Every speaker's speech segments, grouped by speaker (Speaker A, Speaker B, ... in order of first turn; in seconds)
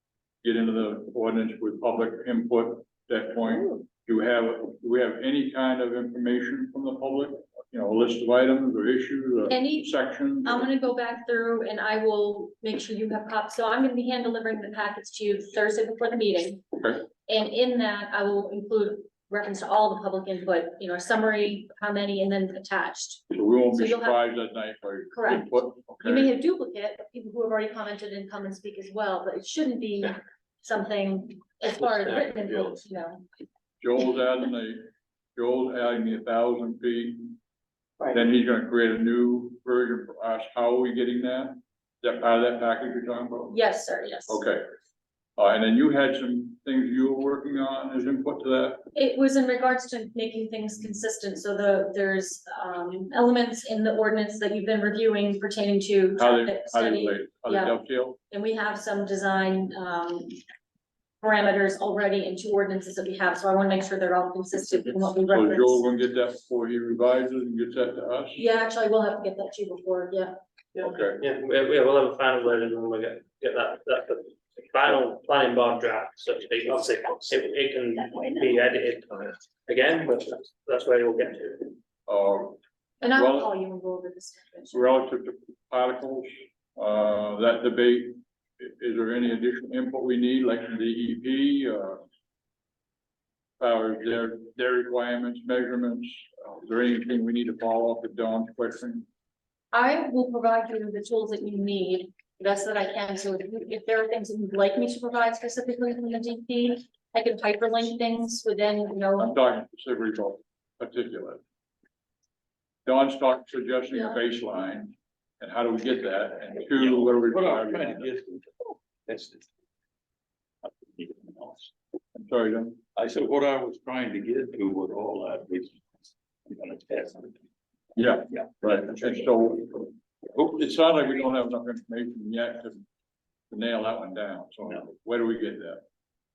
Speaker A: 0.4-10.7, 23.3-26.3, 33.8-37.4, 38.1-43.6, 44.3-44.6, 45.4-48.8, 56.2-58.2, 65.3-68.4, 70.8-71.2, 82.1-82.6, 83.1-83.5, 84.7-92.0, 93.6-99.1, 109.2-111.4, 112.8-118.1, 122.1-122.8, 128.0-132.8, 133.5-135.8
Speaker B: 9.5-9.9, 10.4-16.6, 17.2-24.3, 25.1-33.2, 43.5-44.4, 48.9-60.4, 61.2-65.9, 68.4-70.4, 83.0-84.8, 99.7-109.3
Speaker C: 70.8-81.8
Speaker D: 116.7-119.5, 120.6-121.7, 122.9-125.9, 126.5-127.4, 128.3-129.2